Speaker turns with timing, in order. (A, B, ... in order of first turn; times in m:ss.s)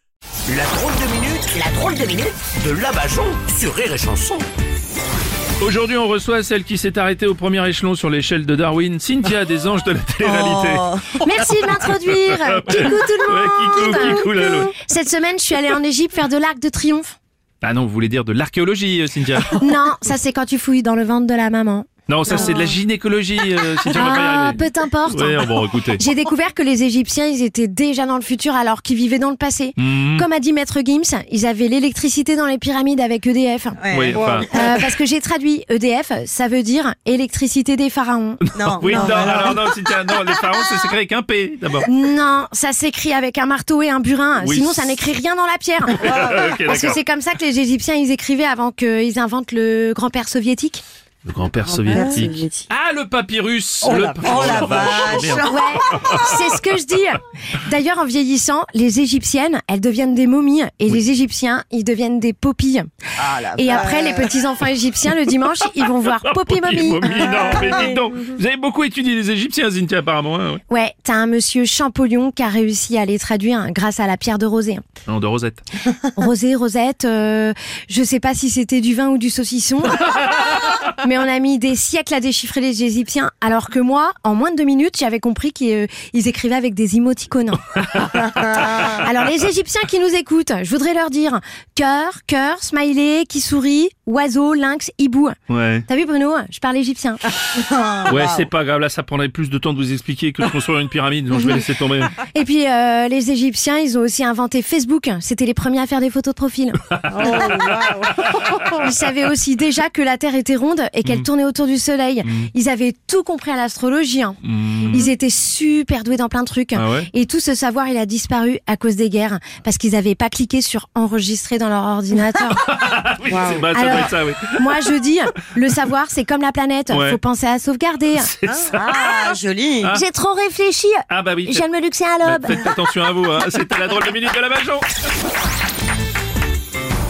0:00.5-0:04.4 A
0:05.6-0:14.8 B
0:10.2-0:11.2 C
0:11.2-0:17.2 D
0:17.6-0:19.8 B
0:19.5-0:22.7 D
0:22.1-0:26.0 B
0:23.9-0:39.4 D
0:29.8-0:30.3 B
0:33.8-0:34.9 C
0:33.9-0:34.6 B
0:38.5-0:39.7 C
0:38.6-0:41.9 B
0:41.8-0:50.8 D
0:44.4-0:45.0 B
0:45.9-0:47.0 B
0:46.0-0:46.6 C
0:51.2-0:56.5 B
0:51.7-0:52.7 C
0:53.8-0:56.1 C
0:55.4-1:02.9 D
1:03.2-1:04.3 C
1:03.5-1:07.8 D
1:06.2-1:10.6 B
1:10.7-1:14.8 D
1:15.1-1:15.6 B
1:16.0-1:20.3 D
1:21.0-1:27.8 D
1:27.8-1:28.2 B
1:28.2-1:28.5 C
1:28.5-1:35.4 D
1:28.8-1:29.1 B
1:35.5-1:35.8 B
1:35.9-1:37.4 D
1:37.5-1:38.5 C
1:38.0-1:42.2 B
1:42.2-1:47.7 D
1:46.9-1:48.5 B
1:47.1-1:48.6 C
1:48.6-2:02.6 D
1:52.2-1:52.5 B
1:54.4-1:55.1 B
1:56.8-1:57.1 B
2:02.4-2:04.9 B
2:03.2-2:03.7 C
2:03.6-2:08.3 D
2:06.9-2:07.2 B
2:08.1-2:09.2 B
2:08.5-2:09.9 C
2:09.9-2:12.6 D
2:11.1-2:11.7 B
2:12.2-2:14.9 B